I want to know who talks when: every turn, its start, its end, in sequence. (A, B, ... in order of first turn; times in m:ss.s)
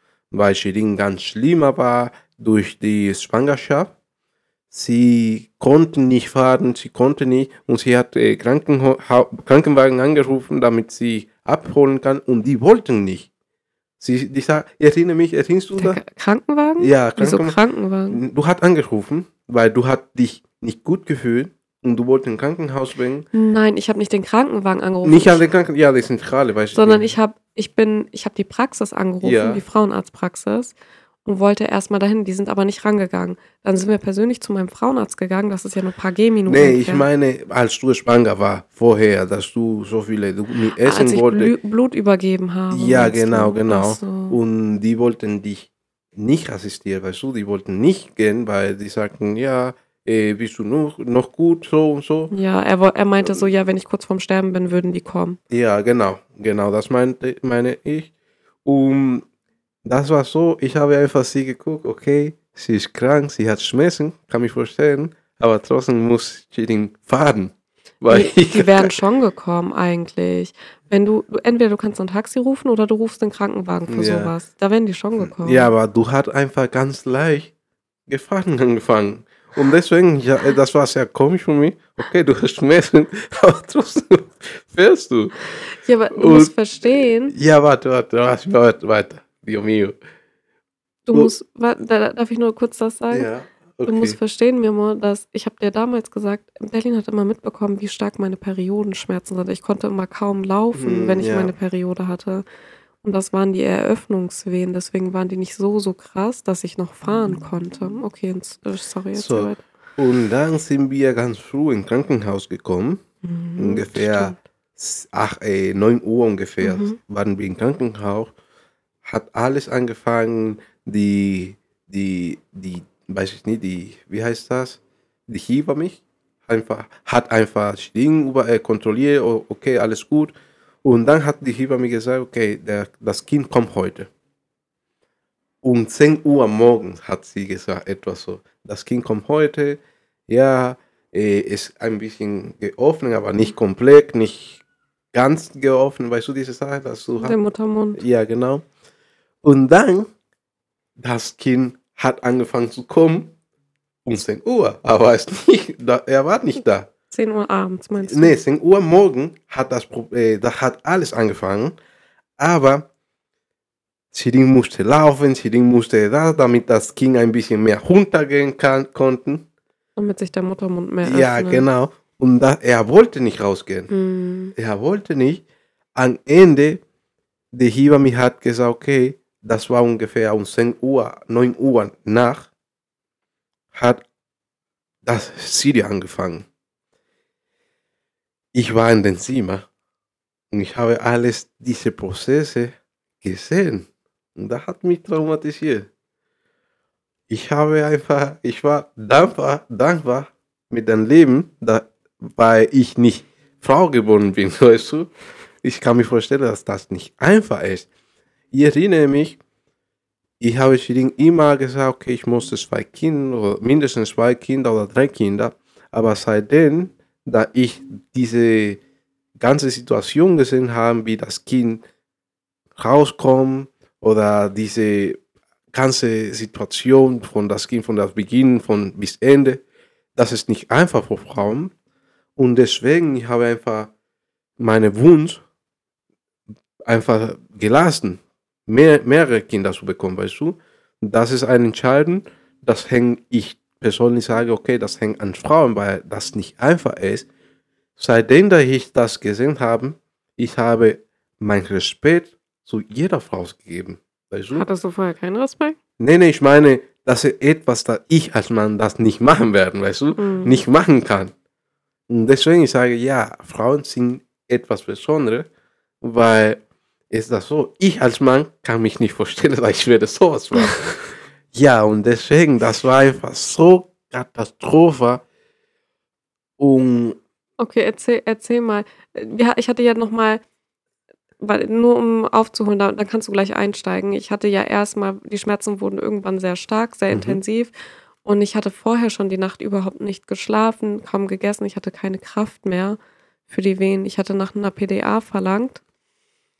0:00.3-0:03.9 A
0:04.7-0:13.3 A
0:14.0-0:16.0 A
0:15.8-0:18.2 B
0:16.8-0:17.6 A
0:18.1-0:23.3 A
0:23.3-0:25.4 B
0:25.0-0:27.1 A
0:26.7-0:30.7 B
0:29.2-0:29.6 A
0:31.2-0:37.1 B
0:36.5-0:41.5 A
0:40.8-0:44.4 B
0:42.7-0:52.3 A
0:52.3-0:55.4 B
0:55.5-0:58.1 A
0:58.6-0:59.2 A
0:59.8-1:09.0 A
1:08.1-1:15.7 B
1:13.9-1:14.3 A
1:15.2-1:17.5 A
1:18.1-1:25.4 A
1:25.6-1:27.3 B
1:26.1-1:30.0 A
1:31.1-1:33.3 B
1:33.1-1:34.2 A
1:33.9-1:42.4 B
1:40.7-1:41.5 A
1:43.0-1:49.6 B
1:49.1-1:53.0 A
1:53.2-1:54.4 B
1:53.6-1:58.3 A
1:56.6-1:57.0 B
1:59.0-2:14.1 A
2:15.6-2:27.4 A
2:27.2-2:28.0 B
2:28.0-2:28.6 A
2:29.4-2:30.1 A
2:31.0-2:33.3 A
2:34.0-2:36.9 A
2:37.1-2:38.4 B
2:38.0-2:41.8 A
2:42.4-2:42.9 A
2:44.1-2:49.5 A
2:50.0-2:51.7 B
2:51.0-2:53.9 A
2:53.9-2:54.5 B
2:54.6-2:55.4 A
2:56.0-2:56.8 A
2:57.5-3:02.5 A
3:03.7-3:04.0 A
3:05.0-3:06.5 A
3:08.5-3:09.7 A
3:10.5-3:15.9 A
3:17.3-3:25.1 A
3:25.6-3:27.9 A
3:28.5-3:29.4 A
3:30.4-3:38.8 A
3:39.4-3:41.8 A
3:42.8-3:45.2 A
3:45.7-3:49.6 A
3:50.2-3:51.7 A
3:52.4-3:53.9 A
3:54.6-3:55.4 A
3:56.9-4:07.3 A
4:08.0-4:14.7 A
4:14.5-4:15.8 B
4:16.0-4:21.3 A
4:20.2-4:20.6 B
4:22.1-4:25.5 A
4:26.0-4:26.6 A
4:27.1-4:35.2 A
4:36.6-4:37.2 A
4:37.6-4:40.4 B
4:41.4-4:47.7 B
4:47.1-4:47.4 A
4:48.2-4:55.8 B